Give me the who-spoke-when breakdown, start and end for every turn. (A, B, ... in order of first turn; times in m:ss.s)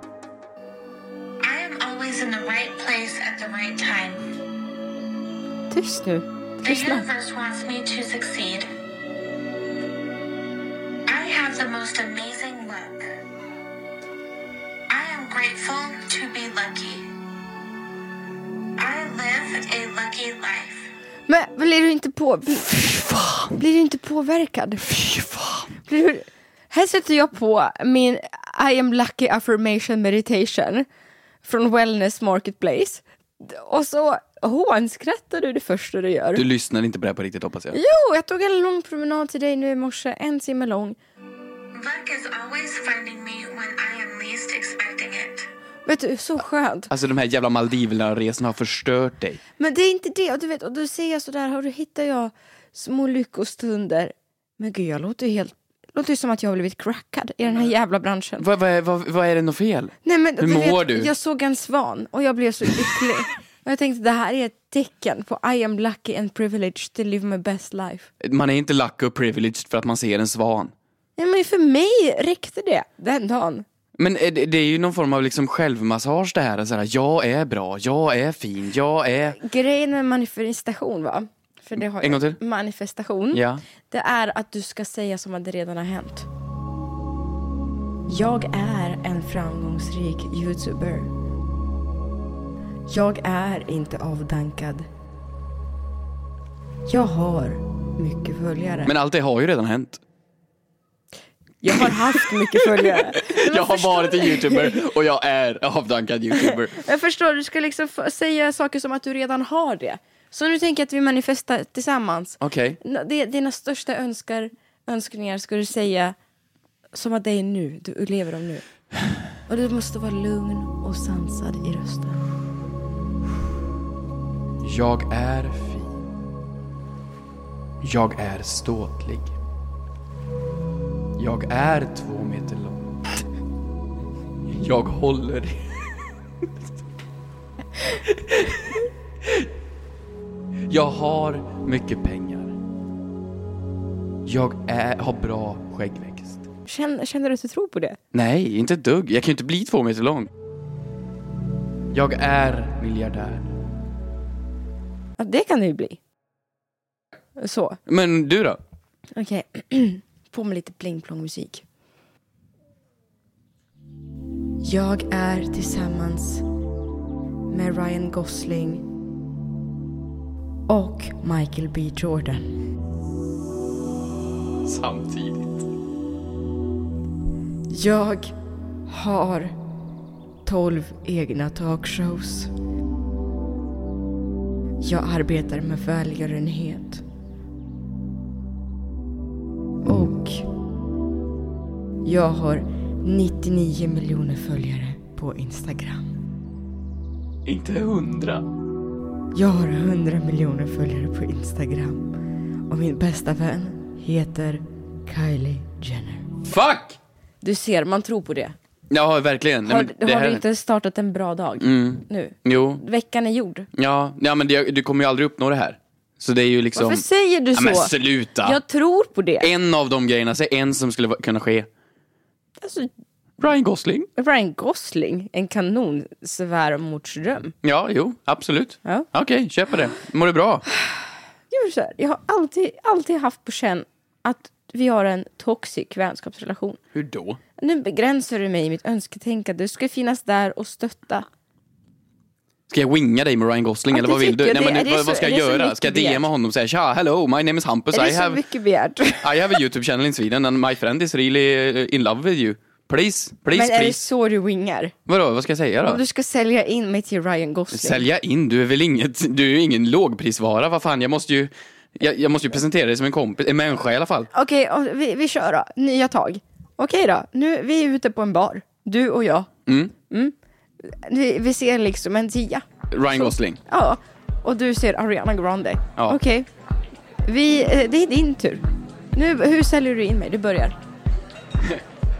0:01.4-0:04.2 A
0:05.7-0:07.0 B
0:06.6-0:08.7 A
0:11.1-0:13.1 A
0:14.9-0:17.0 A
0:18.8-0:20.9 A
0:21.3-0:22.7 B
0:22.7-0:23.5 C
0:23.6-0:24.9 B
0:24.9-0:25.7 C
0:25.8-0:30.8 B
0:31.4-0:36.4 B
0:36.3-0:37.8 C
0:37.7-0:41.0 B
0:41.7-0:45.5 A
0:45.8-0:46.9 B
0:46.9-0:49.4 C
0:49.6-0:58.5 B
0:58.4-1:01.1 C
1:00.0-1:08.1 B
1:08.2-1:10.7 C
1:11.2-1:13.6 B
1:14.0-1:19.4 C
1:19.4-1:26.3 B
1:22.0-1:22.4 C
1:23.3-1:23.6 C
1:28.1-1:31.1 B
1:32.9-1:34.9 B
1:36.9-1:38.9 B
1:38.8-1:40.0 C
1:41.6-1:44.8 B
1:41.7-1:46.8 C
1:46.5-1:56.2 B
1:52.4-1:52.8 C
1:56.9-1:58.6 B
1:59.5-2:02.2 B
2:04.6-2:06.0 C
2:07.8-2:09.3 C
2:11.2-2:13.0 C
2:14.4-2:15.8 C
2:18.1-2:18.7 C
2:20.7-2:22.6 C
2:24.2-2:26.5 C
2:26.6-2:28.0 B
2:28.1-2:30.3 C
2:31.9-2:33.5 C
2:35.2-2:36.0 B
2:37.4-2:37.8 B
2:37.9-2:38.6 C
2:39.1-2:41.6 B
2:44.6-2:46.4 B
2:47.5-2:48.8 B
2:50.7-2:52.5 B
2:54.6-2:55.6 C
2:57.7-2:58.3 B
2:58.9-2:59.5 B
3:00.4-3:02.5 B
3:04.8-3:07.0 B
3:09.8-3:10.4 B
3:12.0-3:16.1 B
3:17.4-3:18.4 C
3:19.3-3:22.1 B
3:22.7-3:26.3 B
3:26.4-3:27.0 C
3:27.4-3:28.5 B
3:28.9-3:30.4 C
3:29.6-3:33.7 B
3:31.6-3:32.8 C
3:33.7-3:38.6 C
3:36.7-3:39.5 B
3:39.4-3:41.7 C
3:42.6-3:42.9 B
3:43.4-3:44.1 C
3:44.2-3:47.5 B
3:47.6-3:50.6 C
3:50.7-3:56.8 B
3:56.9-3:57.4 C
3:57.6-4:01.2 B
4:02.7-4:08.4 C
4:03.9-4:06.2 B
4:07.9-4:09.6 B
4:09.2-4:14.0 C
4:13.5-4:14.9 B
4:15.1-4:16.0 C
4:15.8-4:18.0 B
4:17.7-4:24.3 C
4:24.3-4:29.5 B
4:29.7-4:29.9 C
4:30.1-4:36.5 B
4:32.9-4:33.6 C
4:37.2-4:38.6 B
4:39.1-4:40.8 B